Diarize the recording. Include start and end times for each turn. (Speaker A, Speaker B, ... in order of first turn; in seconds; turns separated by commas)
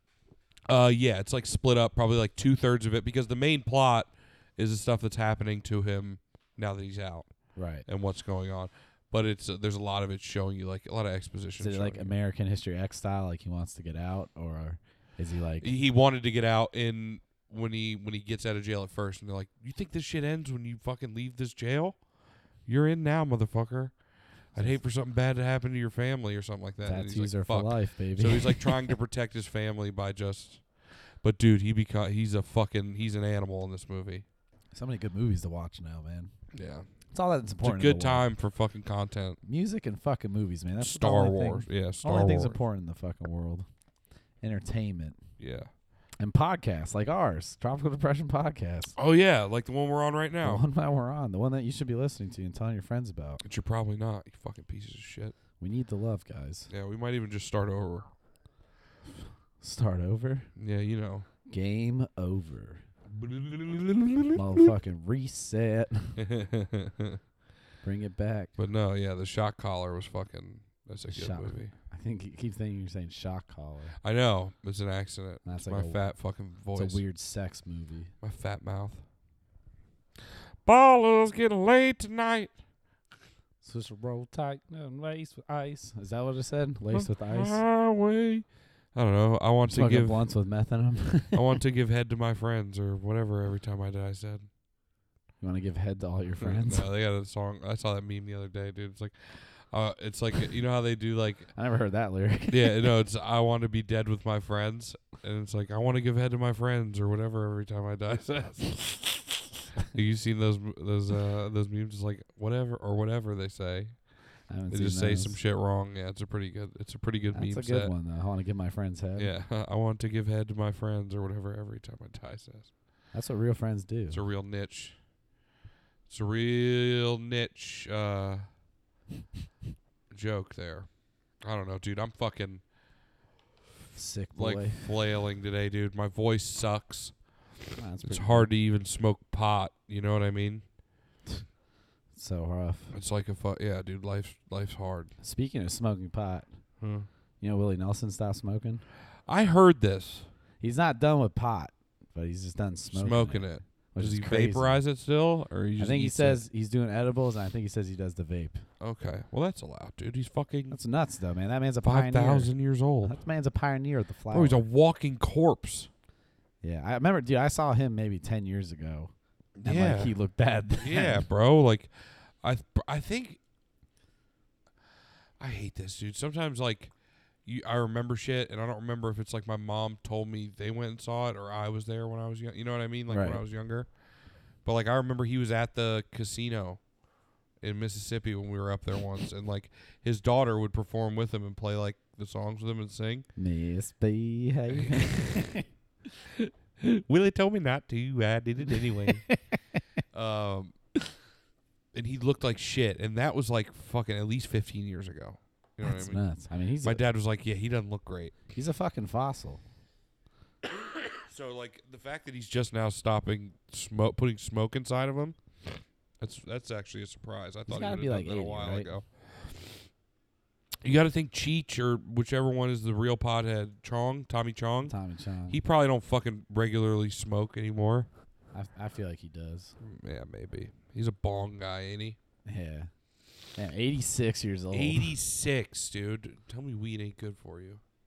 Speaker A: 0.7-12.1, Speaker B: 7.5-7.9, Speaker B: 11.6-15.7, Speaker A: 15.6-22.1, Speaker A: 22.6-34.2, Speaker B: 24.5-24.8, Speaker B: 26.8-28.9, Speaker B: 34.7-36.3, Speaker A: 36.5-36.9, Speaker B: 37.1-38.3, Speaker A: 37.6-39.4, Speaker B: 39.4-43.7, Speaker A: 40.8-42.6, Speaker B: 44.4-45.2, Speaker A: 45.4-45.7, Speaker B: 46.2-48.9, Speaker A: 49.0-50.6, Speaker B: 50.4-53.4, Speaker A: 53.4-55.3, Speaker B: 55.6-56.7, Speaker A: 56.7-58.1, Speaker B: 59.6-60.5, Speaker A: 60.6-61.3, Speaker B: 61.5-62.8, Speaker A: 63.1-64.7, Speaker B: 64.3-66.2, Speaker A: 66.2-67.2, Speaker B: 67.8-68.5, Speaker A: 68.6-71.7, Speaker B: 71.1-74.0, Speaker A: 74.0-77.0, Speaker B: 75.4-76.0, Speaker B: 76.7-78.1, Speaker A: 78.2-79.0, Speaker A: 80.6-82.5, Speaker B: 83.6-87.6, Speaker A: 86.9-90.2, Speaker B: 89.7-91.6, Speaker A: 91.3-94.5, Speaker B: 95.4-96.9, Speaker A: 96.4-101.5, Speaker B: 101.5-102.9, Speaker A: 102.5-109.2, Speaker A: 109.9-114.1, Speaker B: 114.5-115.4, Speaker A: 114.7-117.9, Speaker B: 117.3-119.3, Speaker A: 119.2-122.7, Speaker B: 123.1-124.2, Speaker A: 124.1-125.0, Speaker A: 126.1-128.5, Speaker A: 130.1-132.6, Speaker B: 133.9-134.8, Speaker A: 134.3-137.2, Speaker B: 137.8-138.5, Speaker A: 138.0-140.6, Speaker B: 142.1-142.9, Speaker A: 142.9-145.1, Speaker B: 145.2-146.5, Speaker A: 146.8-147.1, Speaker B: 147.4-148.8, Speaker A: 149.2-150.3, Speaker B: 150.6-154.8, Speaker A: 152.9-156.4, Speaker B: 155.8-158.6, Speaker A: 158.8-160.8, Speaker B: 160.7-164.6, Speaker A: 161.8-163.2, Speaker A: 164.3-165.9, Speaker B: 166.6-169.1, Speaker A: 169.6-170.1, Speaker B: 169.6-171.2, Speaker A: 170.8-173.4, Speaker A: 175.4-176.9, Speaker A: 177.4-183.9, Speaker B: 183.1-183.4, Speaker A: 184.6-186.8, Speaker A: 187.6-193.3, Speaker B: 193.3-195.7, Speaker A: 194.7-195.4, Speaker A: 196.4-199.3, Speaker B: 198.7-199.4, Speaker A: 200.1-200.7, Speaker A: 201.9-206.2, Speaker B: 205.8-207.0, Speaker A: 206.8-208.4, Speaker B: 208.5-209.6, Speaker A: 211.2-215.3, Speaker A: 216.2-219.8, Speaker B: 217.7-218.9, Speaker A: 220.8-224.9, Speaker B: 224.8-225.6, Speaker A: 225.5-228.1, Speaker B: 228.5-229.7, Speaker A: 229.8-232.2, Speaker B: 232.4-232.9, Speaker B: 233.5-235.1, Speaker A: 234.7-237.8